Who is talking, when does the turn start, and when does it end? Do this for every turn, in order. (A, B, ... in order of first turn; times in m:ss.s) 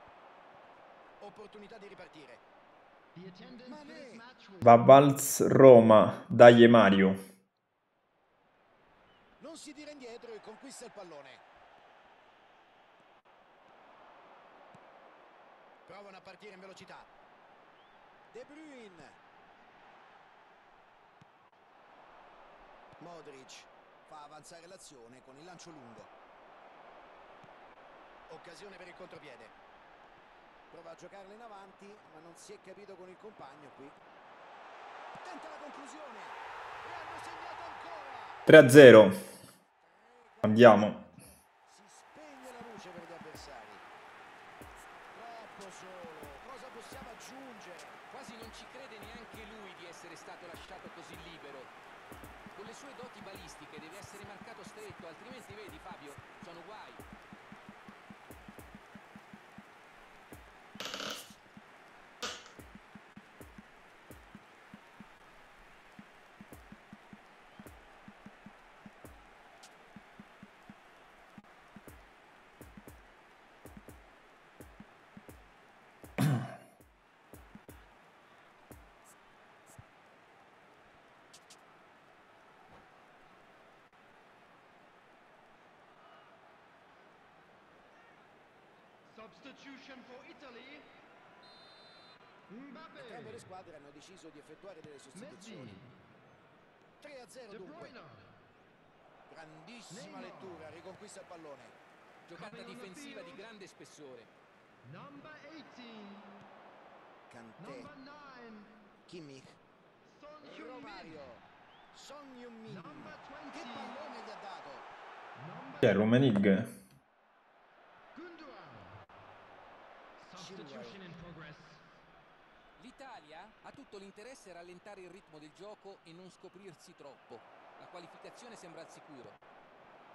0:01.2-0:02.4 A
0:03.2-0:05.0 B
0:03.6-0:04.2 A
0:04.6-0:07.2 C
0:09.4-0:11.4 A
0:15.9-0:17.1 A
0:18.3-0:19.2 A
0:23.0-0:26.1 A
0:28.3-0:29.6 A
0:30.7-0:34.0 A
0:35.2-0:38.5 A
0:38.5-0:39.3 C
0:39.8-0:43.8 A
0:40.4-0:41.0 C
0:45.1-0:48.0 A
0:48.1-0:51.7 D
0:52.5-0:57.0 D
1:29.1-1:30.9 B
1:32.5-1:33.5 B
1:33.0-1:35.8 A
1:35.1-1:35.9 B
1:37.0-1:38.0 A
1:37.5-1:38.3 B
1:39.3-1:41.8 A
1:39.9-1:40.8 B
1:42.3-1:44.3 D
1:42.3-1:43.5 B
1:44.8-1:46.5 B
1:47.3-1:47.9 A
1:47.6-1:48.9 B
1:49.1-1:49.6 A
1:50.0-1:51.2 B
1:50.4-1:54.9 A
1:52.7-1:54.2 B
1:55.4-1:56.1 B
1:55.8-1:56.8 C
1:58.1-1:59.0 B
2:00.2-2:01.8 B
2:00.4-2:01.0 A
2:02.8-2:09.4 D